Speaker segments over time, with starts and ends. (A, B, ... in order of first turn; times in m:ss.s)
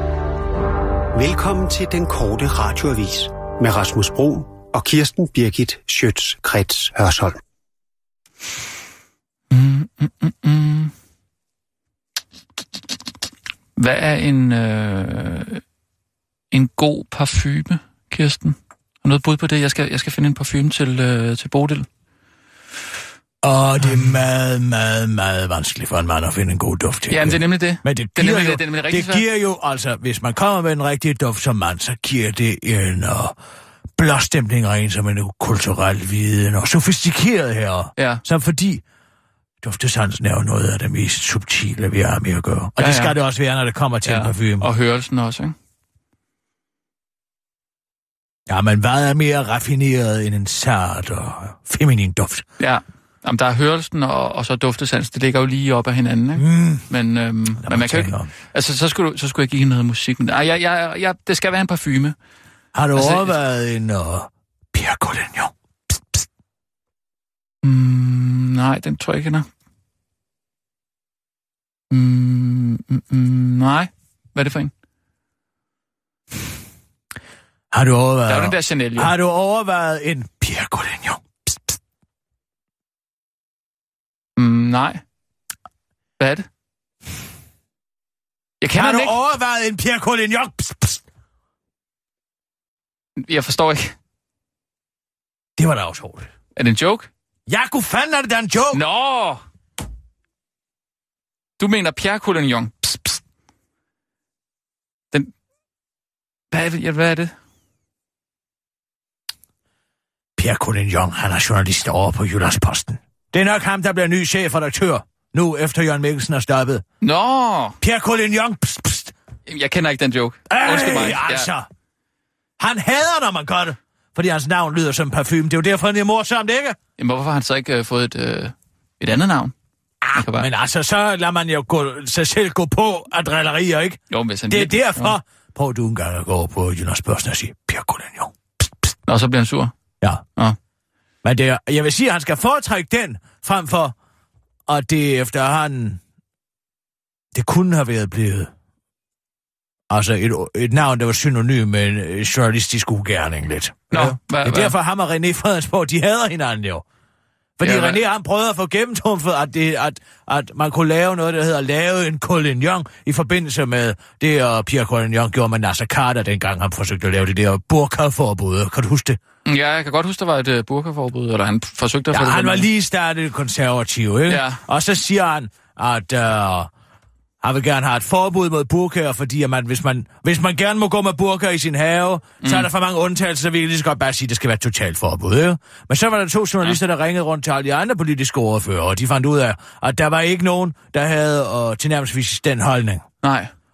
0:01.1-0:07.4 A
0:09.5-0:10.9 B
0:13.8-0:15.6 B
0:16.5-0:21.9 B
0:23.4-0:33.3 C
0:27.1-0:29.2 B
0:34.0-0:38.8 C
0:38.0-0:38.2 B
0:39.6-0:44.7 C
0:42.8-0:43.2 B
0:44.0-0:45.5 B
0:48.5-0:52.4 C
0:52.6-1:02.2 B
0:56.4-0:56.9 C
0:57.6-0:58.3 C
1:02.7-1:06.2 C
1:02.9-1:03.3 B
1:07.6-1:09.5 B
1:11.9-1:14.7 B
1:17.7-1:21.6 C
1:18.3-1:19.1 B
1:24.4-1:25.0 B
1:26.2-1:26.5 B
1:28.6-1:29.2 B
1:28.7-1:31.0 C
1:33.2-1:33.9 B
1:35.6-1:36.3 C
1:36.6-1:37.1 B
1:37.5-1:38.8 C
1:38.7-1:39.4 B
1:41.6-1:43.2 B
1:46.5-1:47.3 B
1:50.4-1:56.8 C
1:57.0-1:57.8 B
1:57.8-1:59.1 C
1:59.5-2:01.5 B
2:00.5-2:01.7 C
2:02.6-2:06.8 C
2:07.0-2:09.5 B
2:10.0-2:14.0 C
2:10.1-2:10.5 B
2:14.1-2:15.2 B
2:14.5-2:18.6 C
2:19.1-2:19.7 B
2:21.2-2:23.9 C
2:24.7-2:26.0 C
2:27.3-2:28.5 C
2:29.9-2:36.8 C
2:33.9-2:34.7 B
2:37.6-2:49.2 C
2:37.6-2:38.0 B
2:49.4-2:52.7 B
2:52.1-2:56.7 C
2:54.3-2:54.6 B
2:57.4-3:13.0 C
3:02.4-3:02.7 B
3:13.2-3:13.5 B